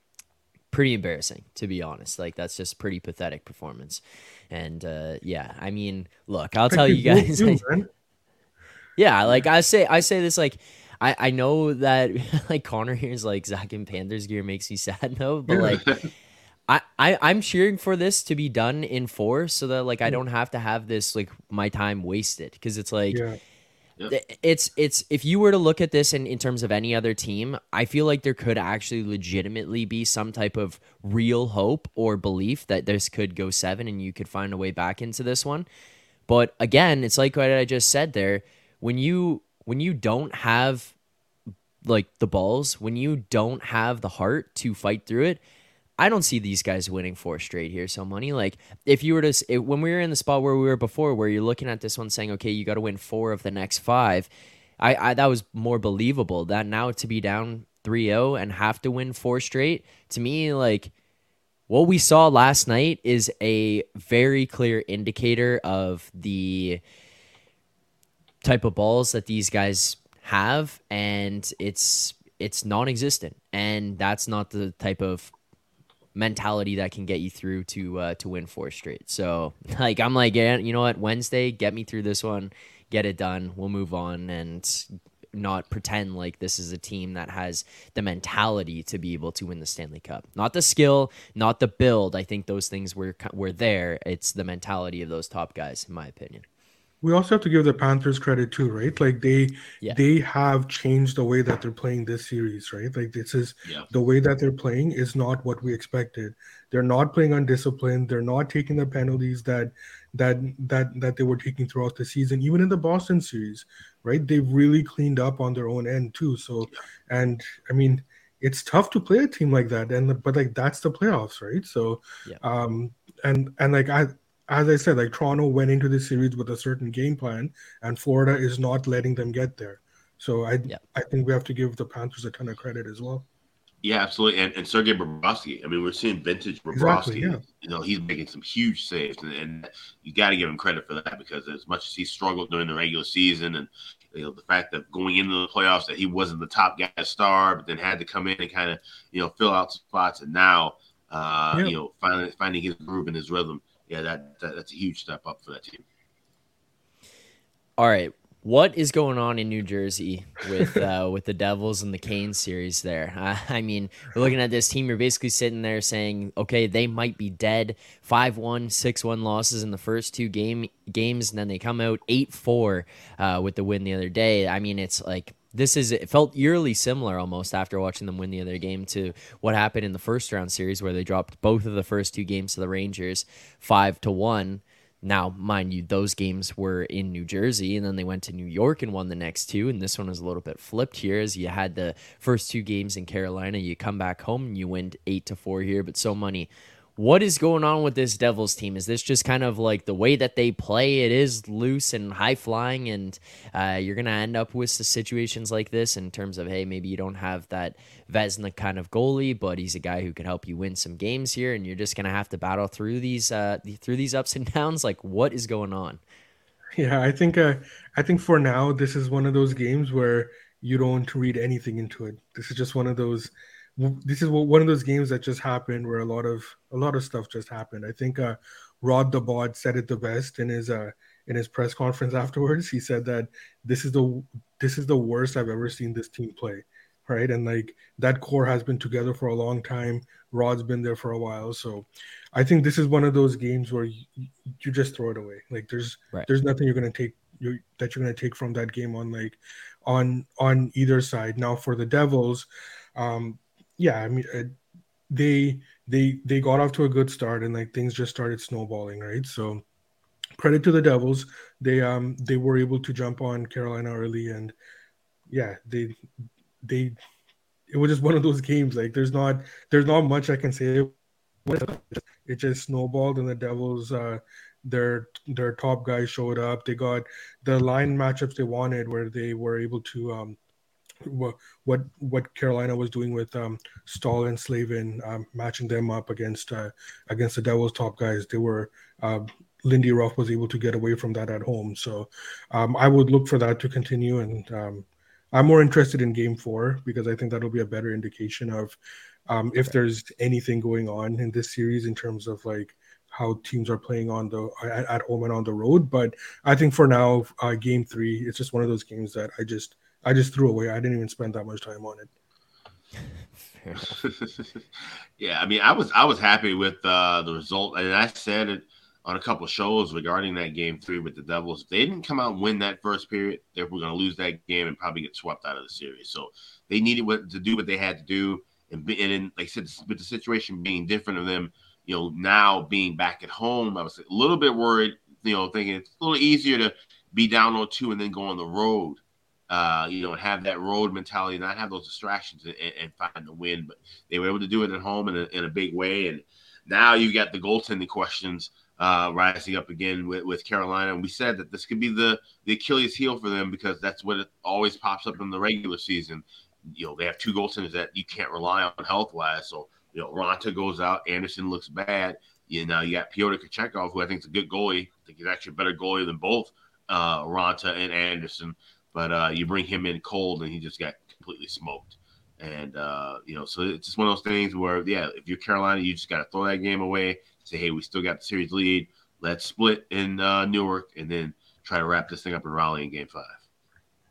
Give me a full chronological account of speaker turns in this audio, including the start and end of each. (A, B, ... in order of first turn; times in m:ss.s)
0:00.7-0:07.6 A
0:06.7-0:07.9 B
0:09.0-0:15.9 A
0:15.5-0:15.8 B
0:16.7-0:23.2 A
0:23.1-0:23.4 B
0:24.1-0:35.7 A
0:36.3-0:40.9 A
0:41.8-0:45.4 A
0:46.0-1:00.9 A
1:01.7-1:06.8 A
1:08.4-1:15.3 A
1:16.2-1:36.4 A
1:37.0-2:13.3 B
2:13.8-2:35.8 C
2:16.7-2:17.4 B
2:37.8-3:36.0 A
3:36.8-4:14.6 B
4:15.1-4:19.6 B
4:20.4-4:24.6 B
4:25.3-4:26.0 B
4:26.6-4:27.0 B
4:27.7-4:40.4 B
4:41.0-4:58.8 B
4:59.3-5:12.1 B
5:13.6-5:14.0 A
5:14.0-5:14.5 C
5:15.2-6:23.4 C